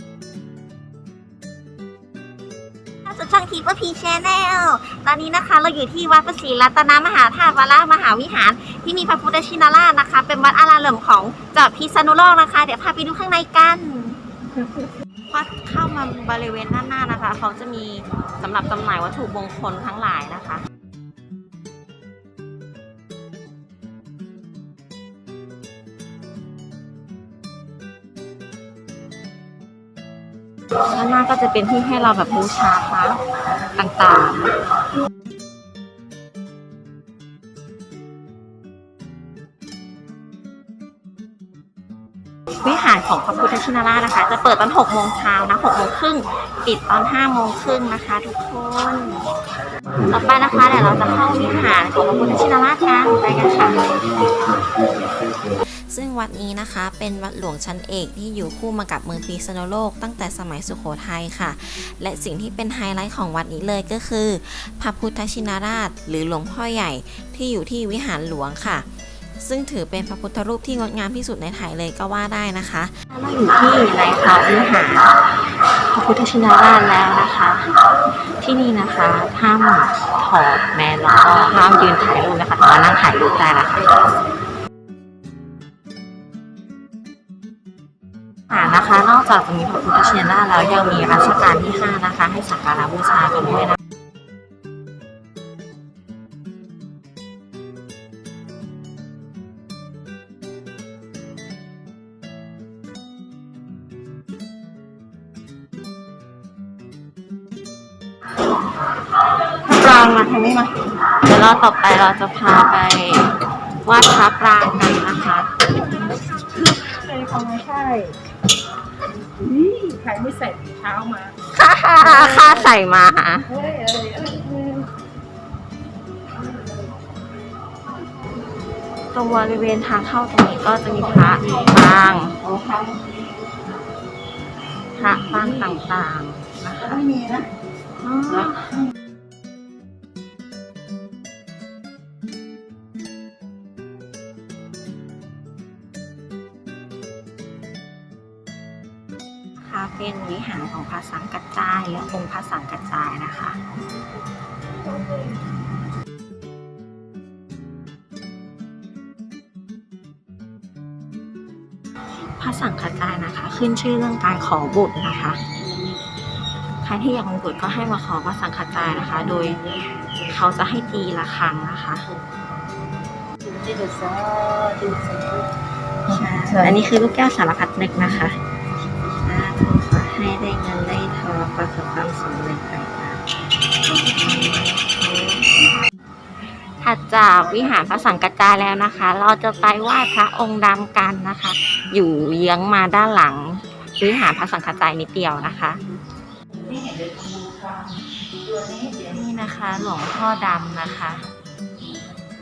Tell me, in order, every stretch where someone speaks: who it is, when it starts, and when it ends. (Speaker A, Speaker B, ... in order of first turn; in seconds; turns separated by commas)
Speaker A: 3.0-14.8, Speaker A: 15.3-20.6, Speaker A: 30.9-34.7, Speaker A: 42.6-49.3, Speaker A: 50.1-53.9, Speaker B: 55.5-68.9, Speaker B: 69.4-72.9, Speaker A: 73.1-75.2, Speaker A: 75.9-84.1, Speaker A: 88.5-93.8, Speaker A: 109.5-116.0, Speaker C: 117.0-118.2, Speaker C: 119.4-121.3, Speaker A: 121.5-123.5, Speaker C: 123.6-124.9, Speaker A: 129.1-133.0, Speaker A: 135.0-137.3, Speaker A: 138.0-138.8, Speaker A: 149.7-153.6, Speaker A: 162.2-165.4, Speaker A: 166.8-172.1, Speaker C: 173.5-175.5, Speaker A: 176.1-178.4, Speaker A: 179.1-183.2, Speaker A: 184.0-185.6, Speaker A: 186.8-195.8, Speaker C: 196.9-197.6, Speaker A: 198.6-201.3